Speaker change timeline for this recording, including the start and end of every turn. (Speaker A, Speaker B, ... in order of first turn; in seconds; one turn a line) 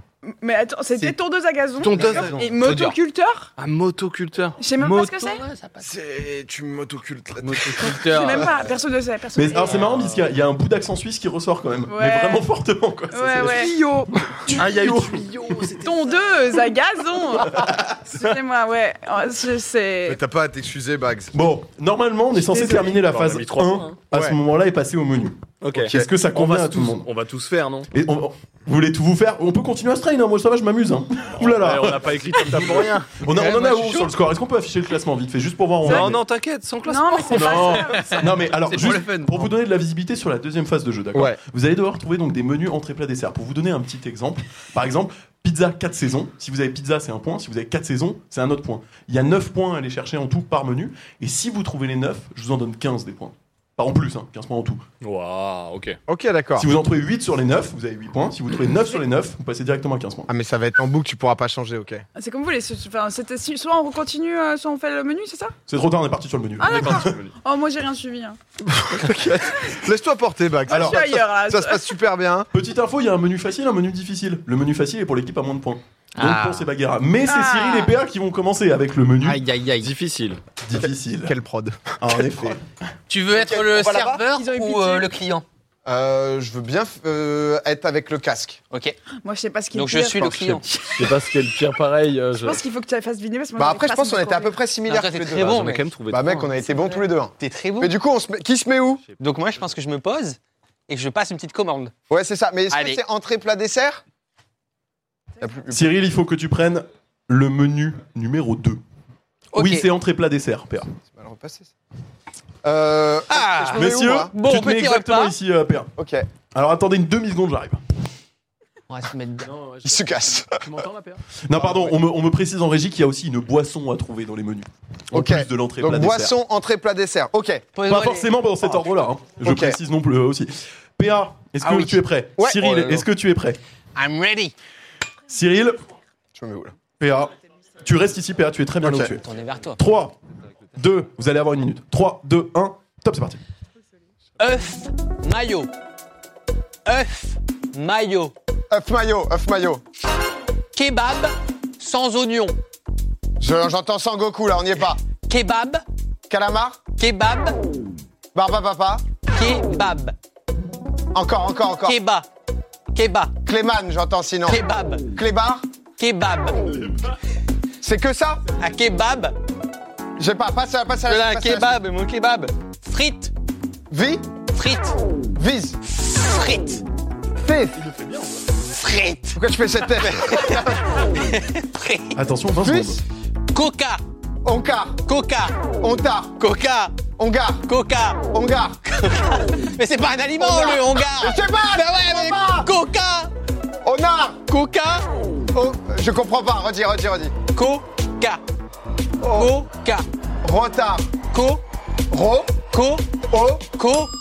Speaker A: 0.2-3.5
Speaker B: 1.8-2.4
Speaker C: 1.9-2.9
Speaker B: 3.6-4.6
Speaker A: 4.6-5.4
Speaker C: 4.8-5.9
Speaker D: 5.8-8.2
Speaker C: 7.4-8.6
Speaker A: 7.9-9.9
Speaker E: 9.3-15.3
Speaker A: 11.9-12.5
Speaker A: 13.1-14.1
Speaker B: 14.5-16.2
Speaker A: 15.8-20.2
Speaker E: 17.5-18.0
Speaker D: 20.1-21.3
Speaker E: 21.3-27.1
Speaker A: 22.5-22.8
Speaker B: 22.6-24.0
Speaker B: 25.6-27.9
Speaker D: 25.7-26.1
Speaker E: 27.9-36.2
Speaker B: 31.4-33.1
Speaker C: 33.3-34.1
Speaker B: 35.8-38.1
Speaker A: 36.8-38.4
Speaker E: 37.4-54.8
Speaker C: 37.6-39.5
Speaker D: 41.1-41.4
Speaker B: 55.0-56.0
Speaker D: 56.1-56.7
Speaker E: 56.6-60.3
Speaker D: 60.3-62.0
Speaker A: 62.1-65.5
Speaker E: 65.7-67.2
Speaker A: 66.6-68.4
Speaker B: 66.7-67.3
Speaker D: 68.6-72.5
Speaker A: 70.7-71.9
Speaker E: 70.7-71.0
Speaker E: 72.5-79.4
Speaker C: 76.1-76.7
Speaker A: 77.2-78.0
Speaker C: 79.2-79.9
Speaker B: 79.8-80.4
Speaker E: 80.6-81.3
Speaker D: 80.7-82.5
Speaker E: 82.0-82.6
Speaker C: 83.1-85.4
Speaker D: 83.3-84.2
Speaker A: 84.2-85.1
Speaker D: 85.8-88.6
Speaker C: 88.7-89.0
Speaker A: 89.2-91.2
Speaker C: 89.7-90.6
Speaker B: 90.9-92.6
Speaker A: 92.4-94.5
Speaker D: 93.6-99.0
Speaker C: 94.9-95.9
Speaker B: 95.3-96.5
Speaker C: 97.4-97.9
Speaker C: 99.2-101.9
Speaker D: 102.1-104.0
Speaker C: 102.7-103.0
Speaker D: 105.4-105.9
Speaker E: 105.7-108.8
Speaker C: 109.5-109.9
Speaker E: 109.5-110.9
Speaker D: 111.1-111.7
Speaker D: 112.6-114.3
Speaker C: 113.3-115.3
Speaker E: 113.7-115.9
Speaker D: 116.0-116.3
Speaker E: 116.5-117.8
Speaker C: 118.9-119.5
Speaker B: 119.4-122.0
Speaker D: 119.8-120.7
Speaker E: 121.4-126.3
Speaker D: 125.1-127.7
Speaker C: 127.7-128.3
Speaker E: 127.8-133.6
Speaker D: 129.4-129.8
Speaker D: 131.6-133.1
Speaker C: 133.9-134.5
Speaker E: 135.3-135.8
Speaker D: 136.3-136.7
Speaker E: 137.0-139.2
Speaker D: 138.8-139.1
Speaker C: 139.2-139.8
Speaker E: 139.8-140.2
Speaker E: 140.7-143.4
Speaker C: 144.4-145.7
Speaker C: 146.8-148.3
Speaker D: 148.7-149.8
Speaker C: 150.7-152.6
Speaker D: 153.4-155.0
Speaker C: 155.2-155.8
Speaker D: 156.3-156.8
Speaker C: 157.0-157.6
Speaker D: 158.3-159.0
Speaker C: 159.3-160.2
Speaker D: 161.1-162.0
Speaker C: 161.8-162.2
Speaker C: 162.9-163.3
Speaker D: 163.4-165.7
Speaker C: 164.5-165.0
Speaker C: 166.0-166.8
Speaker D: 167.8-168.4
Speaker C: 168.6-169.4
Speaker D: 170.2-171.8
Speaker C: 171.1-173.3
Speaker D: 173.9-174.2
Speaker C: 174.5-175.0
Speaker D: 175.3-175.8
Speaker C: 175.8-176.8
Speaker D: 177.3-177.8
Speaker B: 177.8-178.5
Speaker C: 178.6-182.2
Speaker D: 179.3-181.0
Speaker E: 182.2-183.0
Speaker D: 182.5-183.0
Speaker C: 183.5-184.0
Speaker D: 184.4-185.0
Speaker C: 185.0-185.6
Speaker D: 185.8-186.4
Speaker C: 186.4-187.0
Speaker D: 187.2-187.7
Speaker C: 187.6-188.2
Speaker D: 188.2-189.1
Speaker C: 188.9-193.3
Speaker D: 190.4-192.7
Speaker D: 193.8-194.4
Speaker C: 194.5-195.1
Speaker D: 195.5-197.3
Speaker C: 197.5-198.4
Speaker D: 199.2-199.6
Speaker C: 199.3-200.1
Speaker D: 200.4-201.1
Speaker C: 201.3-201.6
Speaker D: 202.1-202.6
Speaker C: 202.7-203.1
Speaker D: 203.3-203.7
Speaker C: 203.7-204.1